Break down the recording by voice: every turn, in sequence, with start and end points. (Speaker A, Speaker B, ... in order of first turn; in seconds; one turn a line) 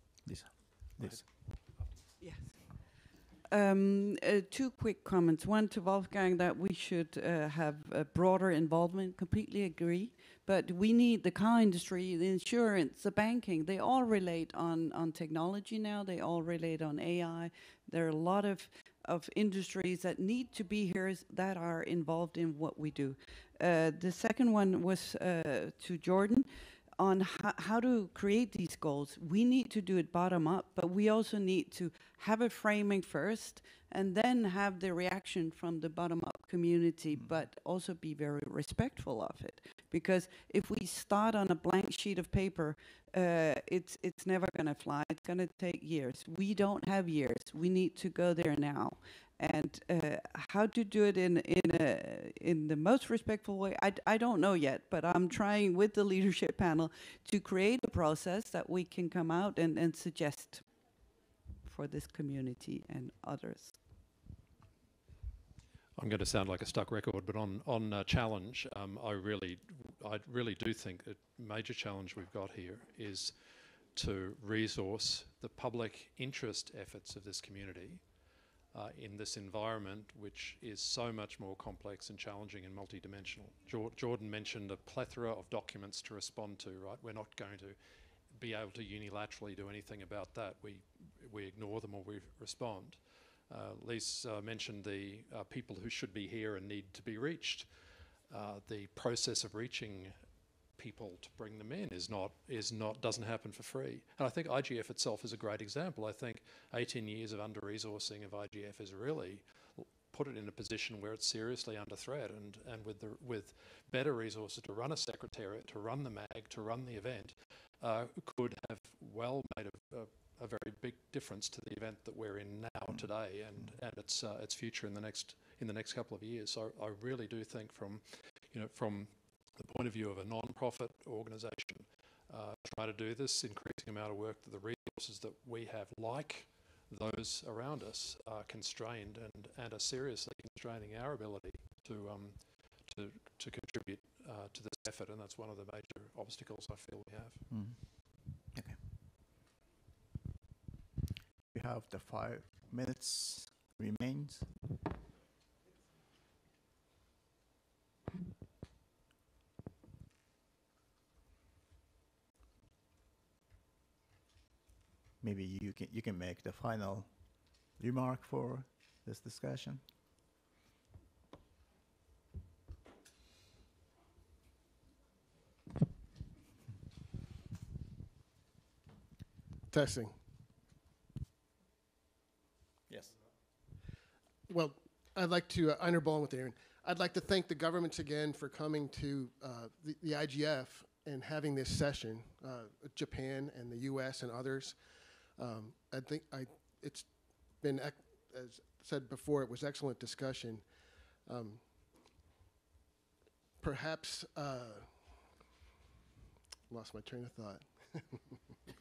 Speaker A: 0.2-1.2
Speaker B: 1.0-2.1
Speaker C: 3.5-60.7
Speaker A: 37.1-37.4
Speaker C: 61.6-63.8
Speaker B: 66.0-73.3
Speaker B: 73.9-78.0
Speaker B: 78.7-87.8
Speaker B: 88.3-97.7
Speaker B: 98.3-100.2
Speaker B: 100.8-147.4
Speaker A: 147.5-148.8
Speaker A: 151.5-154.5
Speaker A: 165.2-169.8
Speaker D: 179.7-180.2
Speaker D: 184.5-194.8
Speaker D: 195.4-197.1
Speaker D: 197.6-200.6
Speaker D: 201.3-201.6
Speaker D: 203.6-204.9
Speaker D: 206.7-208.3